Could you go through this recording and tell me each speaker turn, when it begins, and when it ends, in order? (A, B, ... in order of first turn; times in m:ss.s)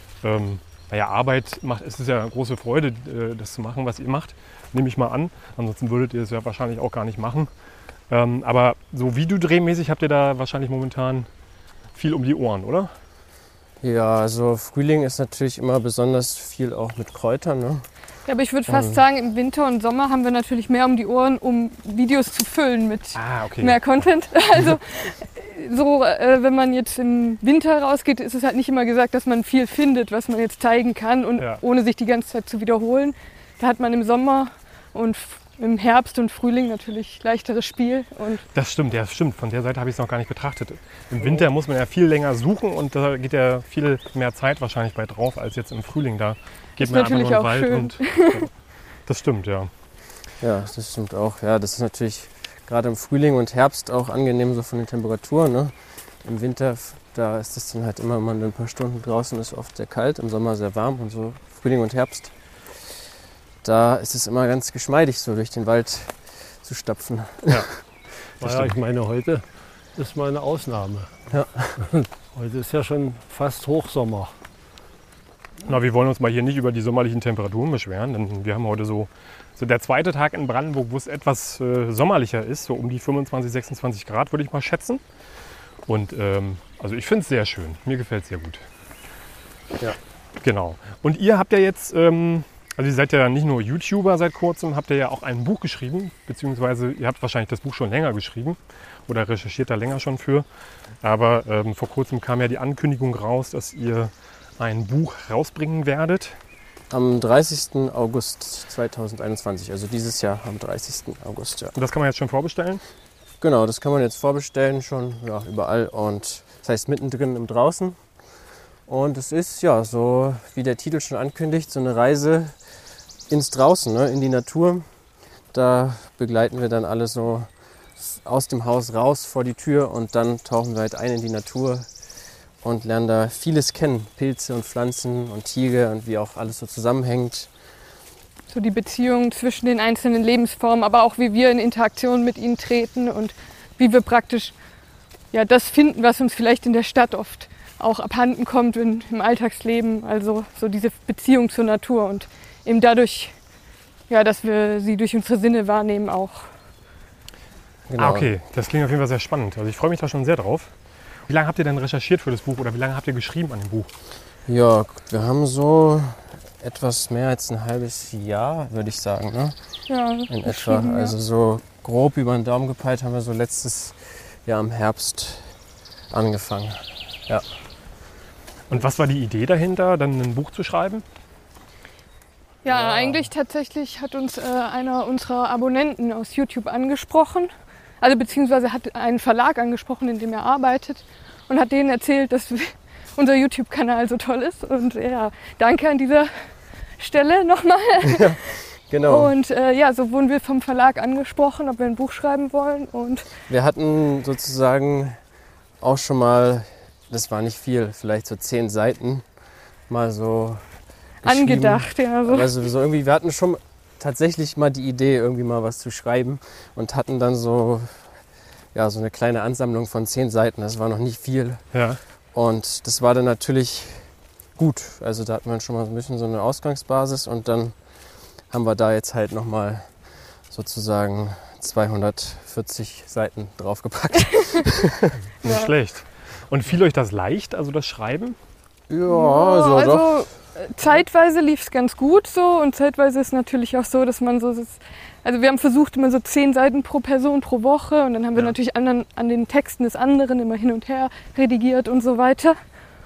0:00.2-0:07.5 A
0:08.1-0:11.3 A
0:11.9-0:12.9 A
0:13.8-0:17.9 B
0:18.2-0:38.4 C
0:18.6-0:19.0 B
0:23.1-0:23.8 A
0:38.5-0:48.5 A
0:46.8-0:48.5 C
0:49.0-0:49.7 A
0:50.4-1:02.3 B
1:03.6-1:07.7 B
1:08.4-1:11.1 D
1:08.4-1:08.7 A
1:11.3-1:11.8 B
1:11.8-1:14.3 D
1:15.6-1:25.0 A
1:25.8-1:28.6 A
1:30.4-1:40.4 A
1:41.0-1:46.4 A
1:46.9-1:51.7 B
1:51.7-1:52.8 A
1:53.4-1:58.0 B
1:58.9-2:02.6 B
2:03.3-2:04.9 B
2:05.5-2:11.9 B
2:12.6-2:17.5 B
2:18.5-2:24.5 C
2:25.3-2:33.4 C
2:34.1-2:36.5 C
2:37.9-2:38.3 B
2:38.0-2:40.7 A
2:41.3-2:43.9 A
2:44.5-2:49.6 B
2:49.9-2:51.1 C
2:50.3-2:55.5 B
2:56.1-2:57.4 B
2:58.7-3:01.0 A
3:02.6-3:18.4 C
3:02.7-3:03.2 B
3:18.0-3:19.3 B
3:19.1-3:23.3 C
3:23.5-3:25.2 B
3:25.8-3:29.2 B
3:29.9-3:30.6 B
3:31.2-3:38.2 B
3:31.2-3:32.5 C
3:38.7-3:41.6 B
3:41.7-3:42.0 A
3:42.3-3:47.8 B
3:48.5-3:55.1 B
3:55.4-3:58.4 A
3:55.4-3:55.7 C
3:58.9-4:00.2 B
3:59.1-4:12.6 C